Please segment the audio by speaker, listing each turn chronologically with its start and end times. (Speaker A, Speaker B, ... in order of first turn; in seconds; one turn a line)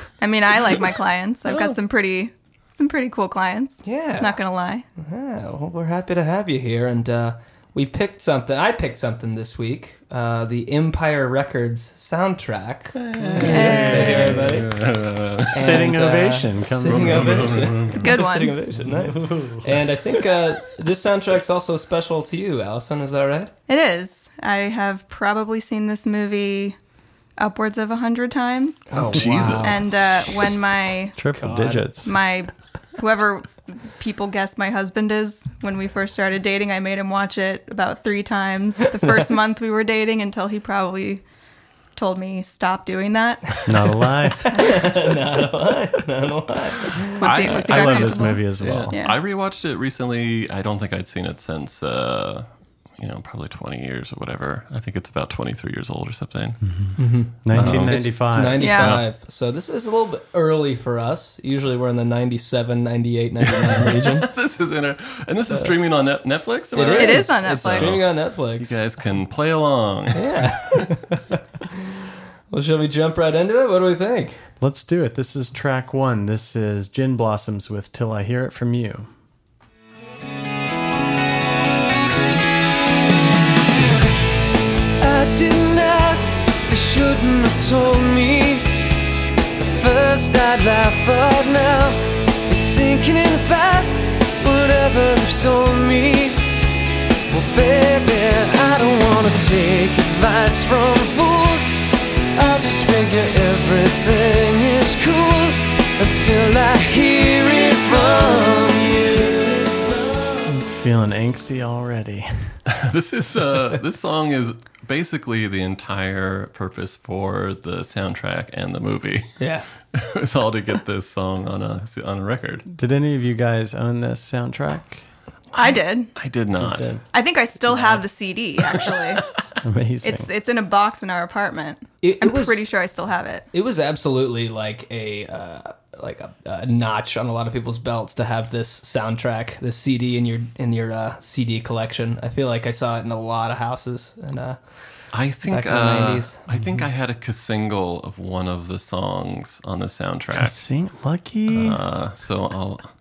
Speaker A: 0.2-4.8
Speaker B: 3.8-4.4
Speaker B: 5.0-14.8
Speaker C: 13.0-15.9
Speaker D: 13.3-14.6
Speaker A: 13.5-14.2
Speaker D: 15.5-17.7
Speaker B: 15.5-23.5
Speaker C: 16.8-18.2
Speaker A: 17.9-18.6
Speaker D: 18.8-19.7
Speaker A: 23.7-26.8
Speaker A: 27.4-28.9
Speaker B: 28.9-29.9
Speaker C: 29.0-29.8
Speaker A: 29.6-31.2
Speaker D: 31.2-32.1
Speaker B: 31.3-32.0
Speaker A: 32.0-41.2
Speaker B: 38.9-39.3
Speaker A: 42.0-43.5
Speaker D: 43.7-44.7
Speaker B: 43.7-47.8
Speaker D: 47.2-48.9
Speaker A: 47.2-49.2
Speaker C: 47.8-52.5
Speaker B: 48.6-48.9
Speaker C: 53.0-56.6
Speaker D: 56.7-59.0
Speaker B: 57.0-64.3
Speaker C: 57.5-58.2
Speaker A: 58.6-58.9
Speaker C: 58.8-59.0
Speaker C: 63.5-70.5
Speaker B: 66.7-68.8
Speaker A: 66.9-68.0
Speaker B: 70.1-71.4
Speaker B: 72.5-74.4
Speaker D: 74.6-79.1
Speaker E: 85.0-88.9
Speaker E: 89.6-96.6
Speaker E: 97.3-101.7
Speaker E: 102.3-109.8
Speaker D: 110.5-112.6
Speaker C: 112.7-119.4
Speaker B: 119.4-119.7
Speaker C: 119.9-122.7
Speaker D: 122.7-125.0
Speaker A: 125.5-126.1
Speaker C: 126.2-126.9
Speaker D: 126.6-127.0
Speaker A: 127.1-129.2
Speaker D: 129.6-130.3
Speaker A: 130.0-133.5
Speaker B: 132.0-132.7
Speaker B: 133.5-144.6
Speaker C: 145.1-150.6
Speaker B: 145.5-146.5
Speaker D: 150.3-151.8
Speaker C: 151.5-152.9